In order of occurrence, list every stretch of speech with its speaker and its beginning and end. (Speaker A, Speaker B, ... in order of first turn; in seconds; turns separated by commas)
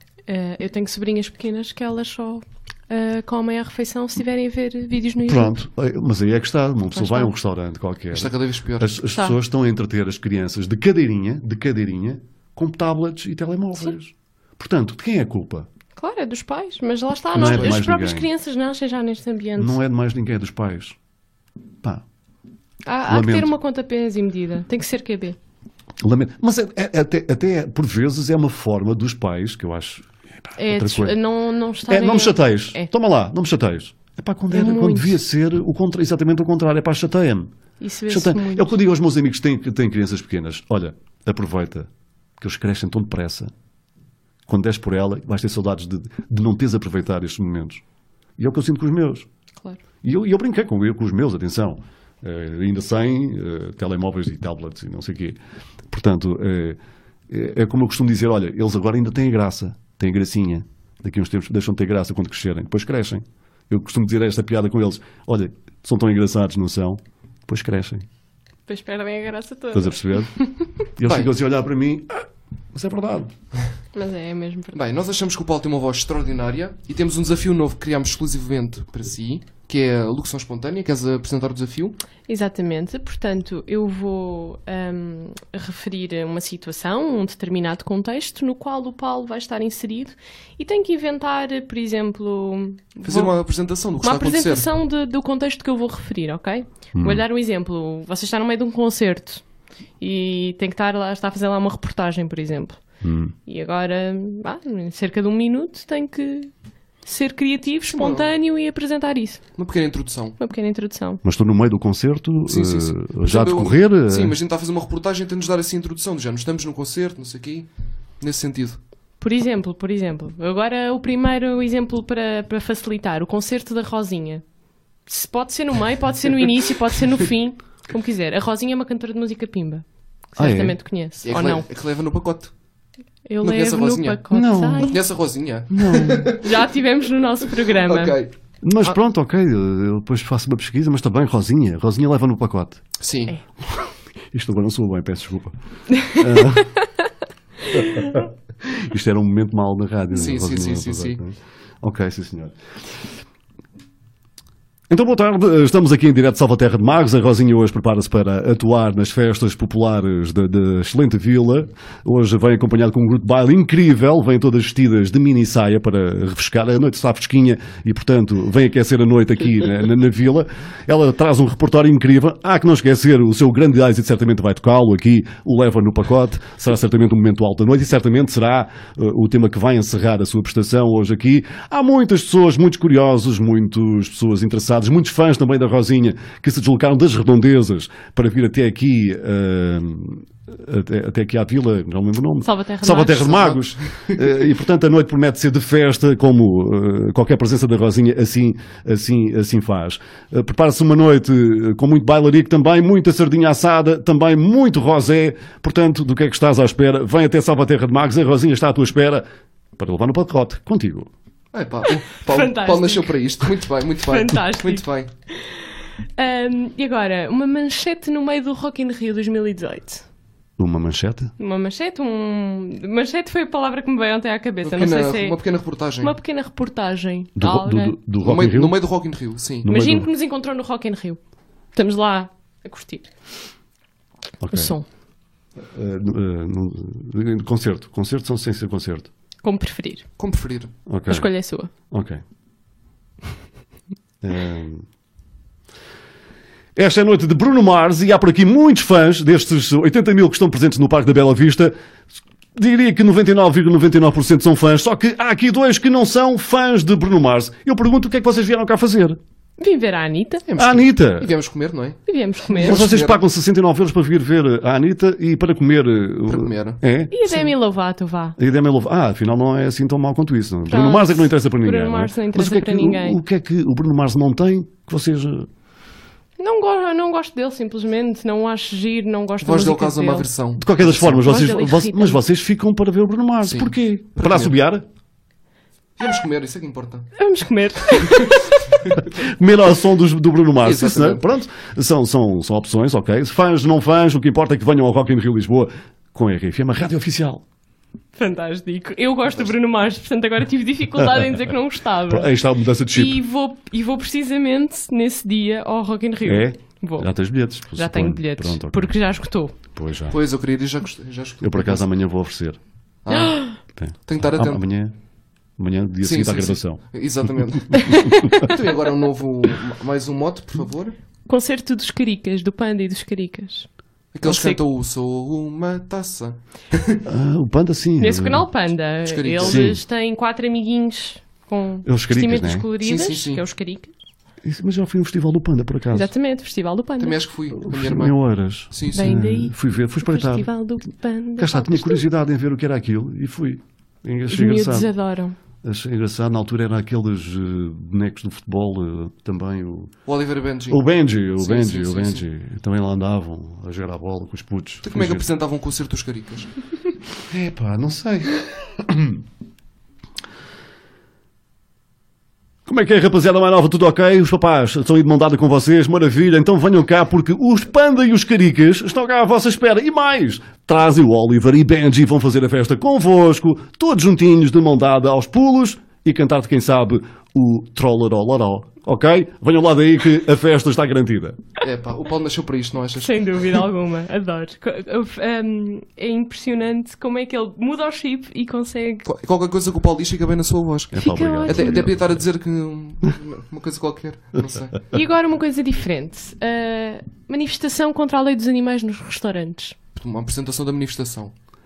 Speaker A: 0.3-5.6, Speaker B: 5.2-15.7, Speaker A: 6.9-7.3, Speaker C: 8.1-9.0, Speaker A: 15.9-19.8, Speaker B: 17.3-18.3, Speaker C: 17.4-17.8, Speaker B: 19.6-21.0, Speaker A: 22.9-25.4, Speaker B: 23.1-23.5, Speaker B: 26.0-31.2, Speaker A: 30.6-32.9, Speaker B: 31.9-37.5, Speaker A: 34.5-35.2, Speaker A: 37.8-38.7, Speaker B: 38.1-41.9, Speaker B: 42.4-43.5, Speaker B: 44.5-47.8, Speaker B: 48.4-49.3, Speaker B: 50.0-55.4, Speaker B: 55.9-68.0, Speaker A: 68.7-70.6, Speaker B: 69.7-70.3, Speaker B: 71.0-73.3, Speaker C: 71.0-71.3, Speaker A: 73.9-74.8, Speaker C: 74.7-82.0, Speaker A: 82.3-93.3, Speaker C: 93.0-94.7, Speaker A: 94.0-99.4, Speaker B: 96.9-97.2, Speaker A: 100.0-102.8, Speaker B: 103.0-103.3, Speaker A: 103.5-106.5, Speaker A: 107.0-109.4, Speaker C: 107.9-108.3, Speaker C: 109.5-110.4, Speaker A: 110.4-111.2, Speaker B: 111.2-114.4, Speaker C: 112.5-117.7, Speaker C: 118.2-118.8, Speaker A: 119.2-124.4, Speaker A: 125.1-131.7, Speaker B: 130.4-130.8, Speaker C: 131.2-132.5, Speaker A: 133.3-135.0, Speaker C: 133.4-134.2, Speaker B: 134.3-134.9, Speaker C: 134.8-136.5, Speaker B: 135.7-136.3, Speaker A: 136.2-138.2, Speaker C: 137.7-138.3, Speaker B: 138.6-142.8, Speaker C: 143.0-143.3, Speaker B: 143.7-146.7, Speaker B: 147.7-152.6, Speaker C: 150.1-151.2, Speaker B: 154.9-211.1, Speaker A: 192.4-193.6, Speaker C: 193.9-194.2, Speaker C: 211.5-215.1, Speaker A: 212.1-213.2, Speaker A: 214.0-215.6, Speaker A: 216.2-220.0, Speaker B: 220.6-221.3, Speaker A: 221.4-225.4, Speaker C: 224.6-226.1, Speaker A: 226.0-227.9, Speaker B: 227.3-228.8, Speaker C: 228.2-229.7, Speaker B: 229.6-230.1, Speaker A: 229.7-231.2, Speaker A: 231.7-233.1, Speaker B: 234.4-234.7, Speaker A: 234.5-234.8, Speaker B: 235.6-239.1, Speaker A: 239.4-240.0, Speaker C: 240.2-240.7, Speaker B: 240.8-241.3, Speaker A: 241.1-241.7, Speaker B: 241.9-242.2, Speaker B: 244.2-244.8, Speaker B: 246.8-251.7, Speaker B: 252.6-259.2, Speaker A: 259.6-260.4, Speaker C: 260.5-263.2, Speaker B: 260.6-261.3, Speaker A: 262.1-262.8, Speaker B: 262.6-267.1, Speaker C: 266.3-266.8, Speaker A: 267.1-268.4, Speaker B: 268.4-275.5, Speaker A: 270.7-273.2, Speaker A: 276.4-280.3, Speaker C: 279.4-281.3, Speaker B: 280.6-284.9, Speaker A: 281.1-282.2, Speaker C: 283.4-284.5, Speaker C: 286.0-287.1, Speaker A: 287.1-288.6, Speaker C: 288.1-288.3, Speaker B: 289.1-297.4, Speaker C: 290.6-291.2, Speaker A: 298.1-302.3, Speaker B: 302.1-303.2, Speaker A: 302.9-307.1, Speaker B: 306.2-308.9, Speaker A: 307.7-309.5, Speaker B: 309.7-310.2, Speaker C: 310.1-311.9, Speaker B: 311.4-312.6, Speaker C: 313.0-313.5, Speaker A: 313.1-313.6, Speaker B: 313.8-314.9, Speaker C: 314.1-314.6, Speaker B: 315.6-316.8, Speaker C: 316.0-320.9, Speaker A: 317.8-318.4, Speaker B: 318.1-318.4, Speaker A: 321.3-323.7, Speaker C: 324.1-327.0, Speaker A: 324.2-324.6, Speaker B: 327.0-328.5, Speaker A: 328.0-333.9, Speaker C: 329.0-329.7, Speaker B: 329.4-329.8, Speaker B: 331.8-332.7, Speaker C: 332.8-333.4, Speaker B: 334.4-336.1, Speaker A: 335.9-337.2, Speaker C: 337.0-338.2, Speaker B: 337.5-340.5, Speaker C: 338.7-339.2, Speaker A: 338.9-342.0, Speaker B: 341.4-344.9, Speaker A: 344.3-345.4, Speaker B: 345.6-349.9, Speaker C: 350.1-352.2, Speaker B: 350.7-355.2, Speaker C: 354.8-356.5, Speaker B: 357.3-359.2, Speaker B: 362.6-381.4, Speaker C: 381.6-383.4, Speaker A: 383.0-389.1, Speaker C: 389.1-394.8, Speaker B: 390.9-391.9, Speaker A: 391.0-391.9, Speaker A: 394.9-399.8, Speaker C: 399.9-401.3